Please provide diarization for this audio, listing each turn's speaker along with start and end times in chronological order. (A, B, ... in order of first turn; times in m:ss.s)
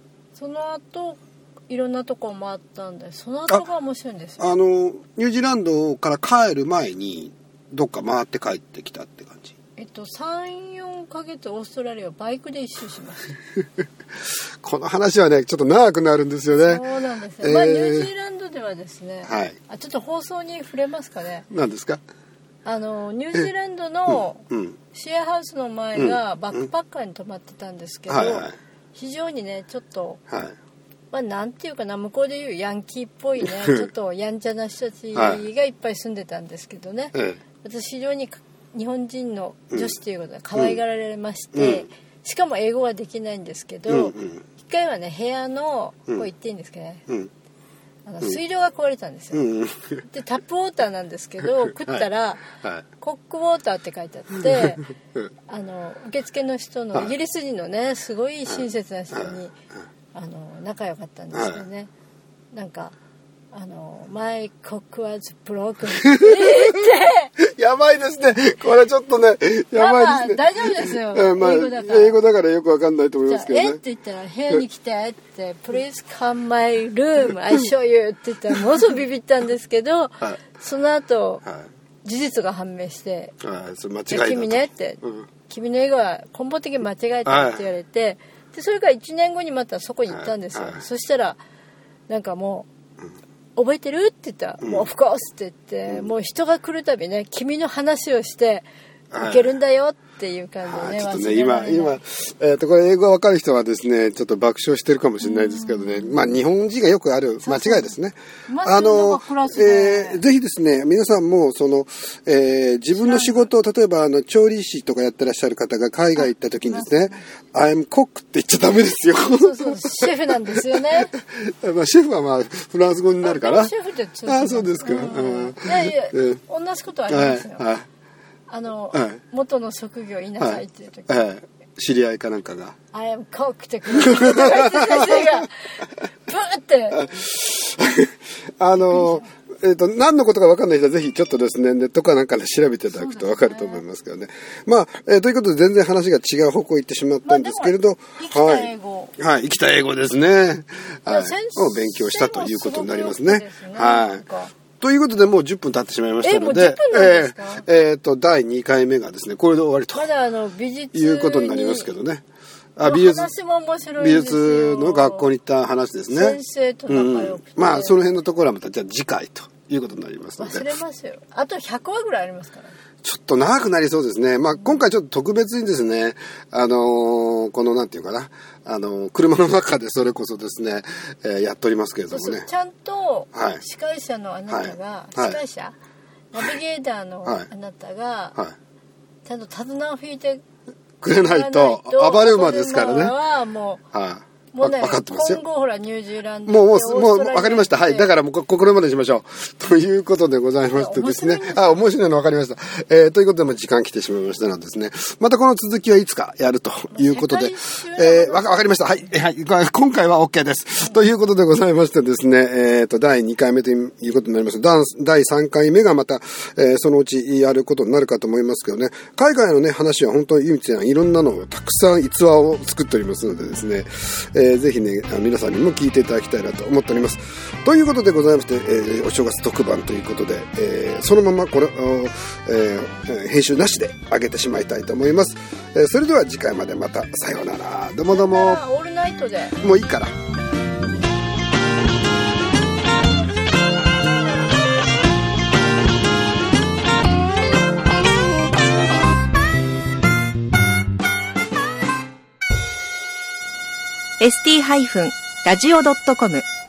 0:00.4-0:04.5 A
0:04.4-0:09.5 B
0:09.8-0:13.4 A
0:14.6-0:16.8 B
0:16.6-0:21.5 A
0:17.4-0:18.1 B
0:19.2-0:19.6 B
0:21.5-0:22.0 B
0:22.6-0:30.2 A
0:24.1-0:24.8 B
0:26.0-0:26.7 B
0:28.1-0:28.6 B
0:30.3-0:30.6 B
0:31.1-0:47.0 A
0:33.4-0:33.9 B
0:35.2-0:35.4 B
0:37.1-0:37.4 B
0:41.5-0:41.9 B
0:43.9-0:44.4 B
0:48.0-0:49.5 A
0:49.3-0:50.1 B
0:50.0-0:52.5 A
0:51.8-0:52.9 B
0:53.0-0:54.9 A
0:55.5-0:59.6 A
0:59.1-0:59.4 B
1:00.1-1:01.9 A
1:01.3-1:01.6 B
1:02.5-1:03.0 A
1:03.5-1:07.3 A
1:06.0-1:13.8 B
1:09.7-1:12.2 A
1:13.3-1:21.4 A
1:22.0-1:23.4 A
1:23.4-1:25.3 B
1:24.1-1:31.4 A
1:27.3-1:27.7 B
1:30.1-1:30.9 B
1:32.1-1:32.7 A
1:33.6-1:38.7 A
1:34.6-1:34.9 B
1:35.9-1:36.1 B
1:39.1-1:39.6 B
1:39.2-1:42.0 A
1:40.6-2:03.7 B
1:45.2-1:46.4 A
1:47.4-1:48.0 A
1:48.5-1:50.2 A
1:52.9-1:53.5 A
1:56.2-1:57.0 A
1:59.2-2:01.1 A
2:03.2-2:07.7 A
2:04.3-2:06.4 B
2:07.1-2:07.9 B
2:08.5-2:11.2 A
2:08.9-2:09.2 B
2:10.4-2:12.8 B
2:12.9-2:17.1 A
2:13.9-2:15.4 B
2:17.0-2:34.2 B
2:18.8-2:19.3 A
2:22.9-2:23.8 A
2:27.2-2:29.2 A
2:31.1-2:34.5 A
2:34.8-2:40.1 B
2:36.2-2:37.7 A
2:39.9-2:41.9 A
2:40.9-2:42.2 B
2:42.8-2:43.3 B
2:42.8-2:45.3 A
2:44.0-2:50.7 B
2:46.1-2:48.1 A
2:50.4-2:52.8 A
2:53.0-3:02.5 B
3:02.1-3:05.8 A
3:03.3-3:03.6 B
3:04.5-3:05.4 B
3:06.3-3:08.4 A
3:09.2-3:10.4 A
3:11.0-3:13.2 B
3:11.1-3:13.8 A
3:13.9-3:15.4 B
3:14.5-3:18.1 A
3:16.5-3:58.6 B
3:20.7-3:21.8 A
3:26.9-3:28.6 A
3:58.1-3:59.6 A
3:59.6-4:00.2 B
4:14.2-4:16.4 C